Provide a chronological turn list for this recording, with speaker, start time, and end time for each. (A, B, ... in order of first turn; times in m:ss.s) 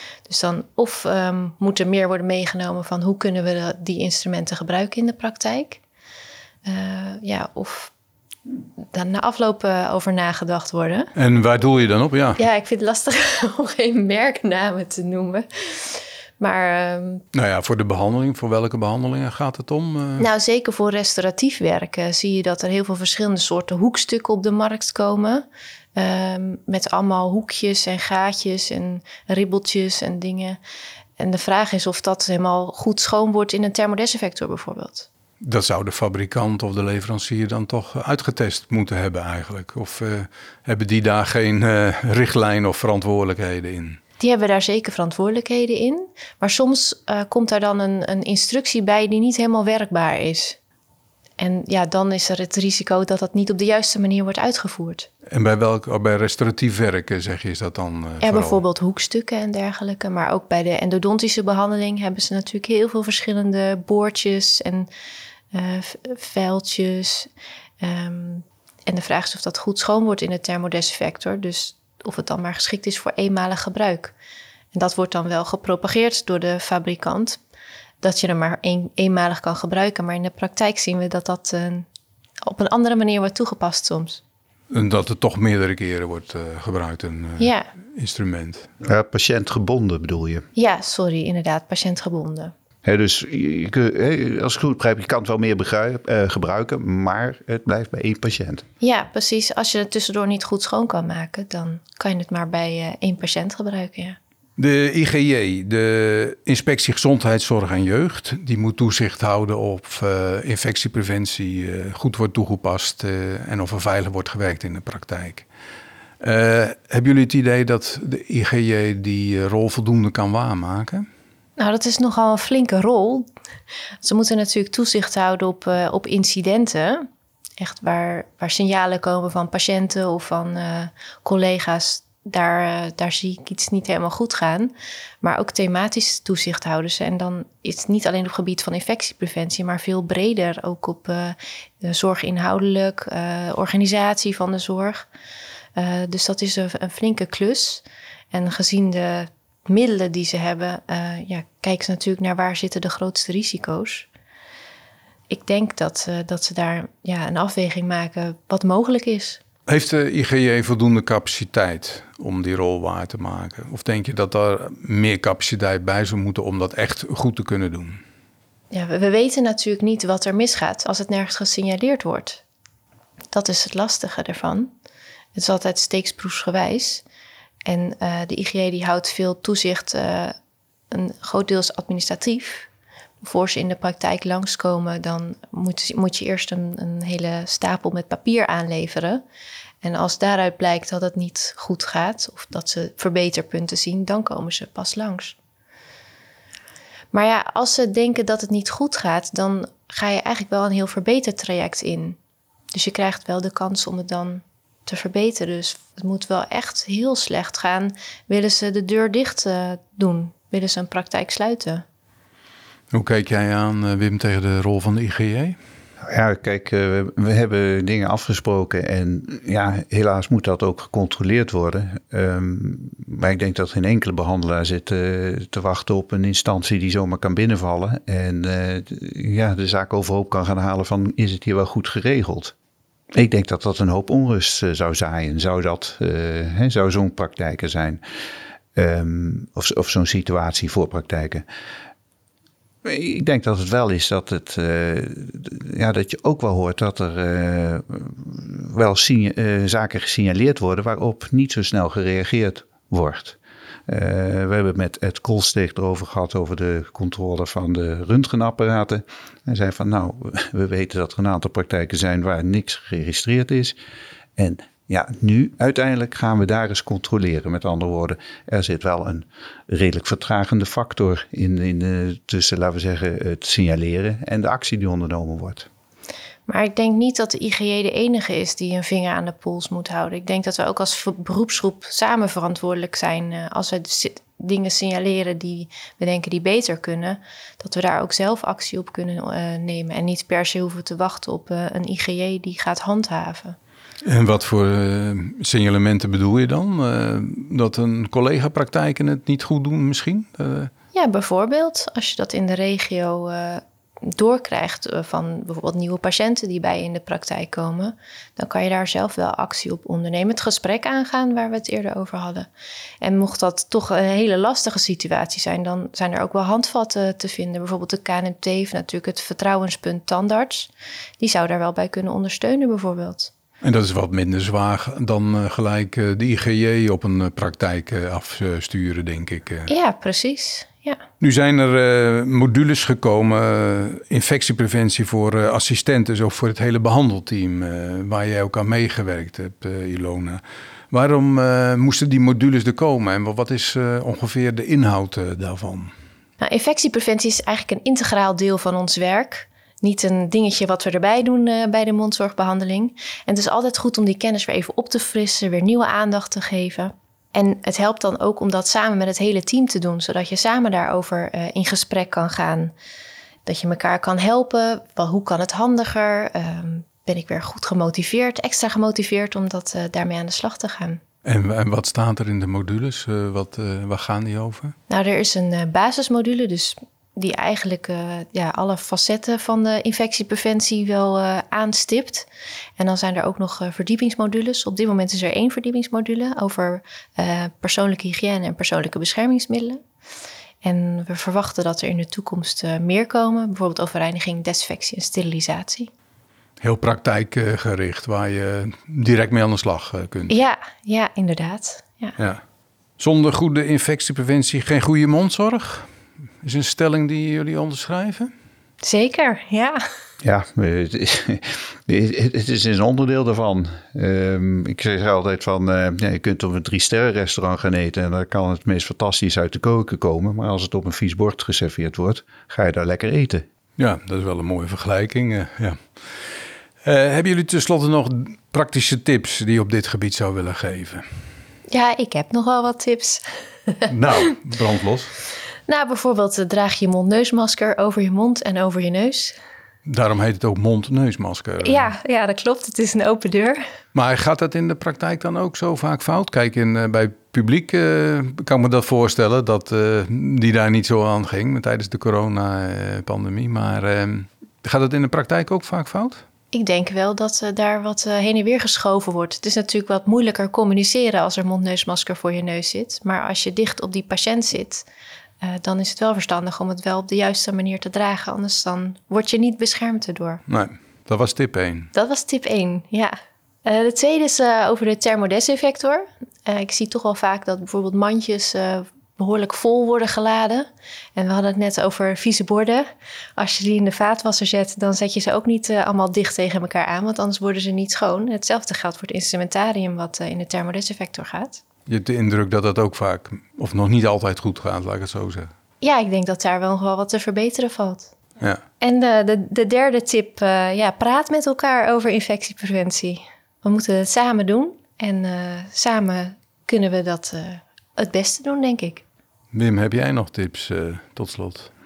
0:00.3-0:05.8 A
0:06.6-0:07.9 A
0:08.9-0:11.1 A
0:11.2-0:12.4 B
0:12.4-0:17.2 A
0:17.3-0:20.3 B
0:20.2-0:30.6 A
0:31.2-0:35.1 A
0:35.4-0:44.0 B
0:44.2-0:50.6 A
0:51.4-0:55.1 A
0:55.3-0:58.6 B
0:58.2-1:04.9 A
1:05.5-1:07.3 A
1:07.8-1:14.1 A
1:14.7-1:17.4 A
1:18.0-1:21.9 A
1:22.4-1:24.2 A
1:24.7-1:28.7 B
1:27.4-1:27.7 A
1:28.8-1:30.5 C
1:30.6-1:32.5 A
1:32.8-1:38.6 C
1:38.8-1:44.2 A
1:44.6-1:55.5 B
1:56.2-2:01.1 B
2:01.6-2:03.3 A
2:04.0-2:07.1 A
2:07.6-2:25.1 A
2:25.8-2:34.1 A
2:35.3-2:39.4 A
2:39.7-2:48.0 B
2:48.7-2:52.4 A
2:53.3-2:54.7 A
2:55.4-2:57.0 A
2:57.7-3:00.4 A
3:00.9-3:02.7 A
3:03.2-3:09.2 A
3:09.8-3:15.4 A
3:17.1-3:22.2 A
3:22.7-3:31.8 A
3:32.9-3:35.6 B
3:36.0-3:52.5 C
3:53.1-3:58.0 C
3:58.8-4:01.4 C
4:02.8-4:23.8 C
4:24.4-4:35.7 C
4:36.5-4:53.6 A
4:54.0-5:00.7 B
5:00.9-5:12.5 A
5:13.0-5:23.3 A
5:23.6-5:29.7 B
5:29.7-5:31.0 A
5:31.2-5:45.9 B
5:46.4-6:02.7 A
6:03.4-6:11.0 A
6:11.2-6:14.8 B
6:14.9-6:22.3 A
6:22.8-6:29.8 A
6:30.6-6:35.9 A
6:36.6-6:40.3 B
6:40.3-6:42.2 A
6:43.0-6:45.9 B
6:46.4-6:48.3 B
6:48.8-6:49.8 A
6:50.2-7:03.5 C
7:03.8-7:11.1 B
7:11.7-7:13.9 A
7:13.9-7:15.1 B
7:15.7-7:19.4 A
7:19.8-7:21.9 B
7:21.6-7:23.6 A
7:23.9-7:36.2 B
7:36.5-7:44.8 A
7:45.4-7:50.4 A
7:50.5-7:51.9 B
7:51.9-7:53.2 A
7:53.7-8:11.6 A
8:11.9-8:15.5 B
8:15.8-8:18.1 A
8:18.8-8:29.0 A
8:29.5-8:31.7 B